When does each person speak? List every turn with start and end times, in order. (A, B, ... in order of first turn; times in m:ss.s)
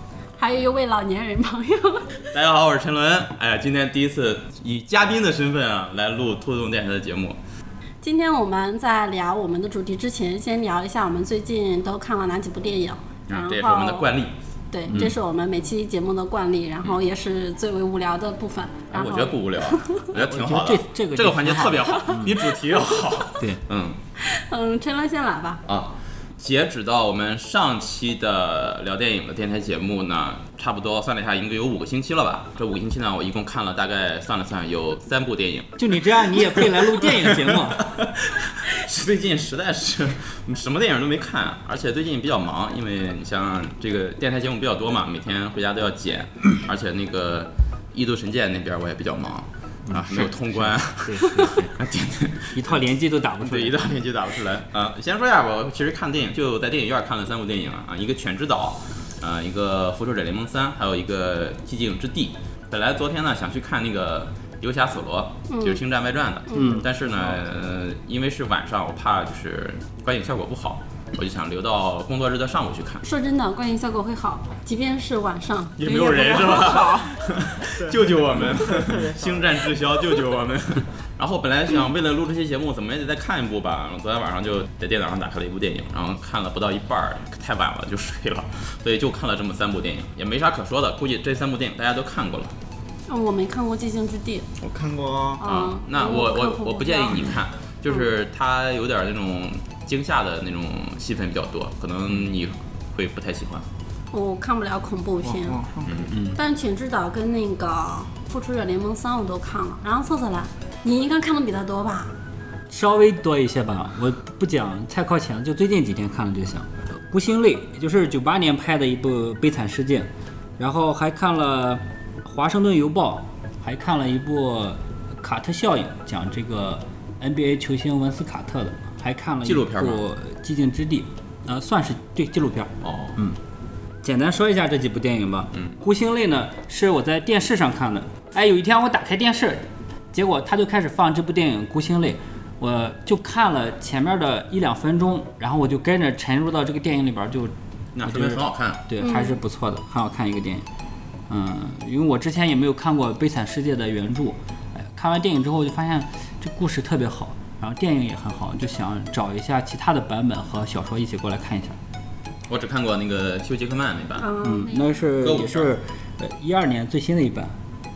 0:00.4-0:02.3 A
0:02.3-0:07.4 B
0:08.0-0:14.1 A
0:13.3-0:14.3 B
0:14.7-0:20.1 A
0:14.9-0:15.1 C
0:18.9-0:24.0 B
0:20.2-0:22.4 C
0:24.2-0:25.6 A
0:25.7-0:52.8 B
0:35.8-0:37.8 C
0:49.9-0:51.8 C
0:52.6-0:53.8 C
0:53.4-1:13.0 B
1:05.5-1:05.8 A
1:06.5-1:06.8 A
1:06.5-1:06.9 C
1:13.0-1:17.0 A
1:15.8-1:32.5 B
1:15.9-1:19.7 D
1:33.1-1:34.5 A
1:34.6-1:35.4 D
1:35.4-1:37.3 A
1:35.4-1:43.7 B
1:44.1-1:45.6 A
1:45.2-1:46.2 D
1:45.9-1:46.2 B
1:46.1-1:46.4 C
1:46.3-1:52.1 A
1:52.7-2:13.4 C
2:09.4-2:10.0 B
2:12.8-2:13.2 B
2:14.0-2:27.5 C
2:27.9-2:28.8 B
2:28.0-2:30.7 C
2:29.0-2:29.4 A
2:31.3-2:41.8 C
2:42.5-2:44.3 B
2:44.2-2:45.1 A
2:44.4-2:47.5 C
2:45.2-2:45.7 B